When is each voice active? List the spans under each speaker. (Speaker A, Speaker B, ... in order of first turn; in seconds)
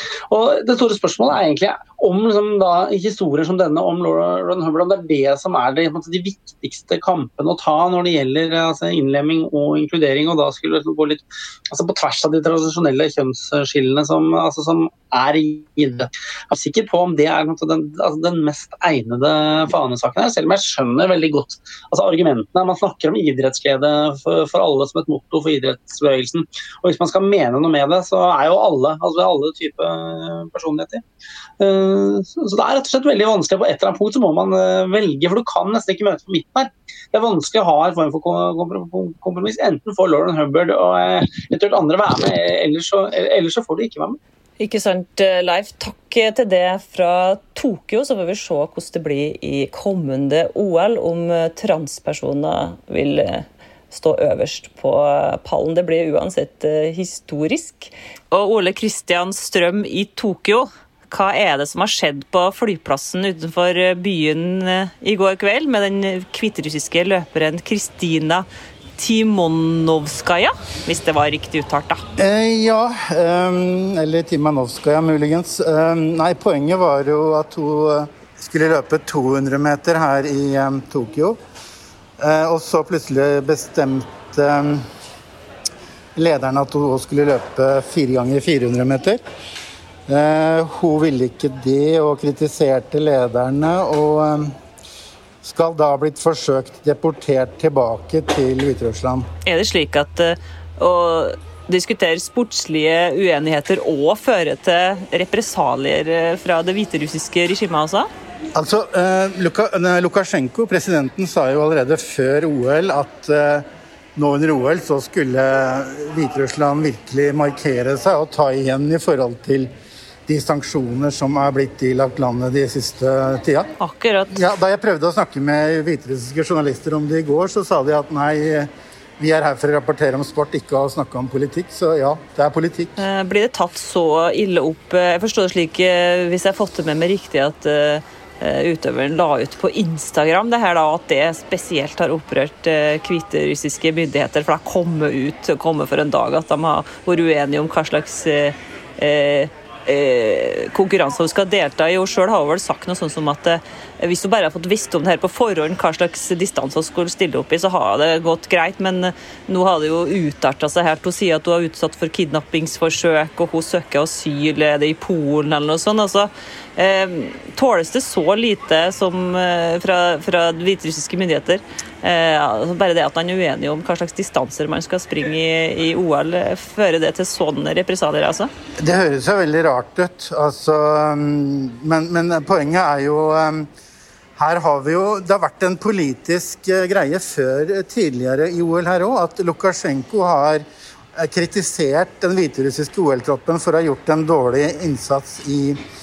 Speaker A: 0.3-31.0, 31.6-44.2
Speaker B: 44.6-68.5, 69.0-72.0, 99.4-108.1, 123.8-124.4, 133.0-178.5
Speaker C: 72.2-81.4, 82.2-84.8, 86.2-89.2, 90.1-94.5, 95.4-99.2, 108.5-113.6, 114.2-119.7, 120.3-123.6, 124.3-132.9, 178.8-183.7, 184.4-190.6, 191.2-195.8